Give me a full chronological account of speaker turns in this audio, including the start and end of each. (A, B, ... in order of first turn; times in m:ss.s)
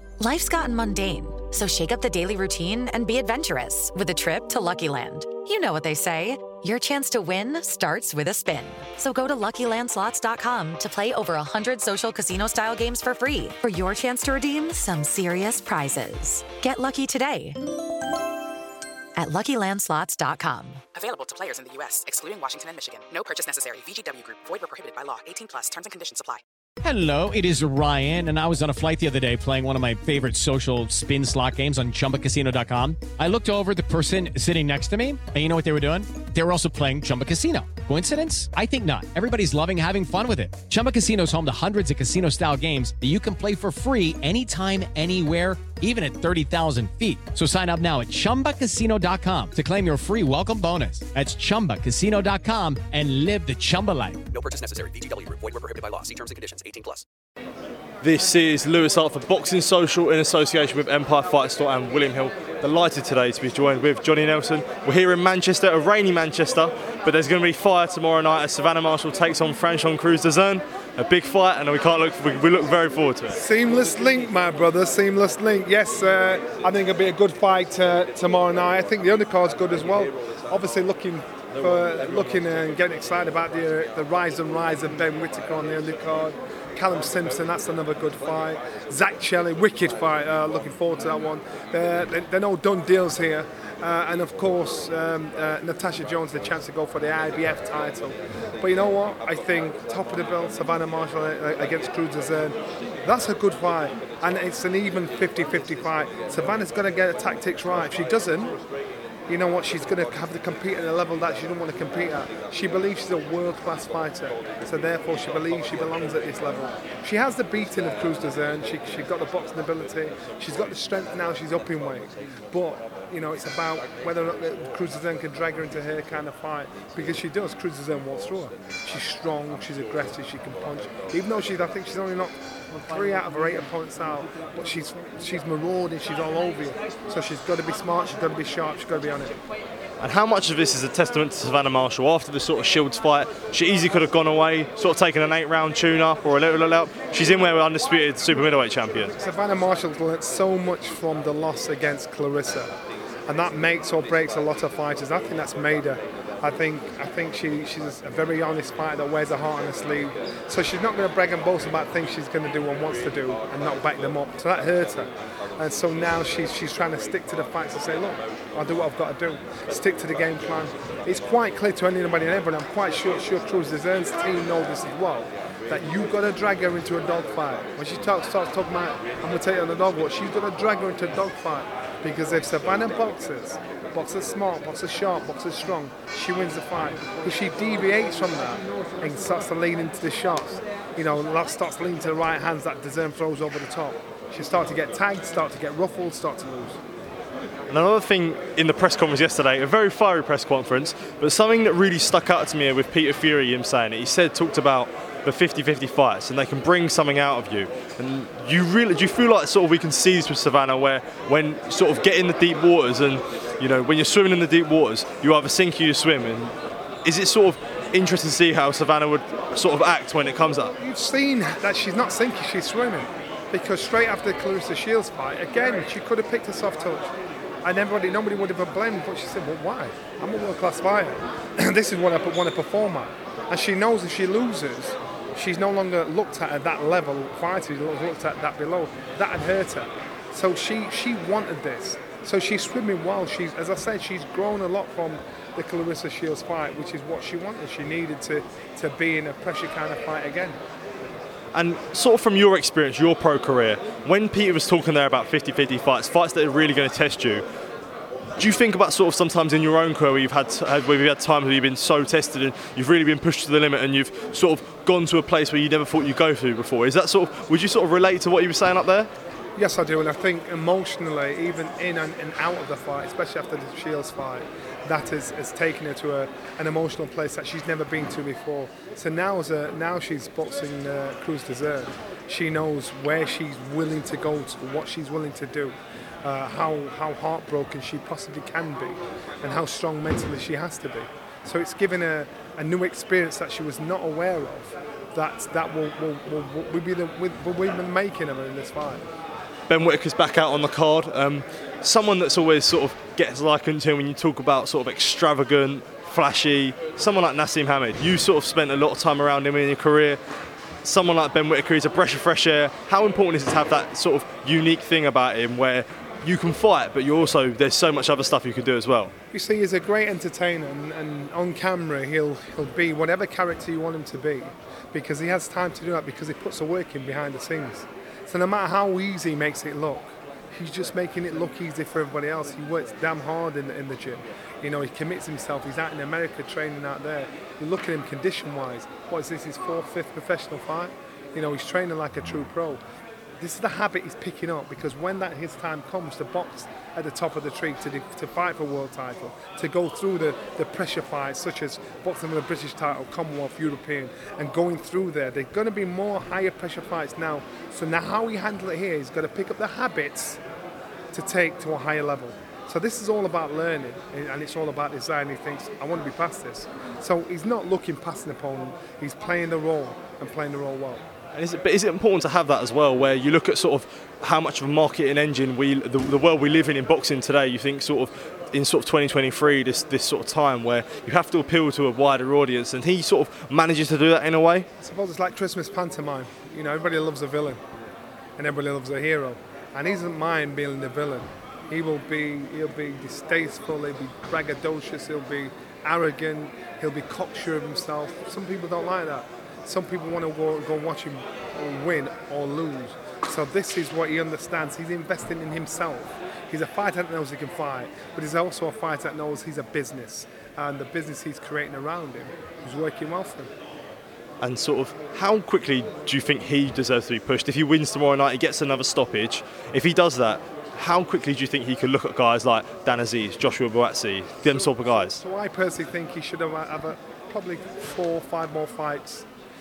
0:00.2-0:17.6 A
0:19.2-0:20.8 A
0:20.9-0:26.4 B
0:26.8-0:54.2 C
0:54.3-0:57.0 D
0:58.0-1:13.4 E
1:13.3-1:48.5 F
1:49.3-2:19.4 F
2:20.0-2:29.1 E
2:29.1-2:32.7 F
2:33.3-3:16.8 F
3:17.7-3:36.5 E
3:37.0-3:40.7 E
3:40.8-3:47.1 F
3:47.6-4:10.6 F
4:11.5-4:17.4 E
4:18.4-4:29.1 E
4:29.6-4:59.0 F
4:59.7-5:10.2 E
5:10.8-5:19.1 E
5:19.3-5:42.8 F
5:43.4-6:00.4 F
6:01.1-6:11.0 F
6:11.3-6:24.7 E
6:24.8-6:27.6 F
6:28.4-6:53.5 F
6:54.4-7:05.2 E
7:04.4-7:09.2 F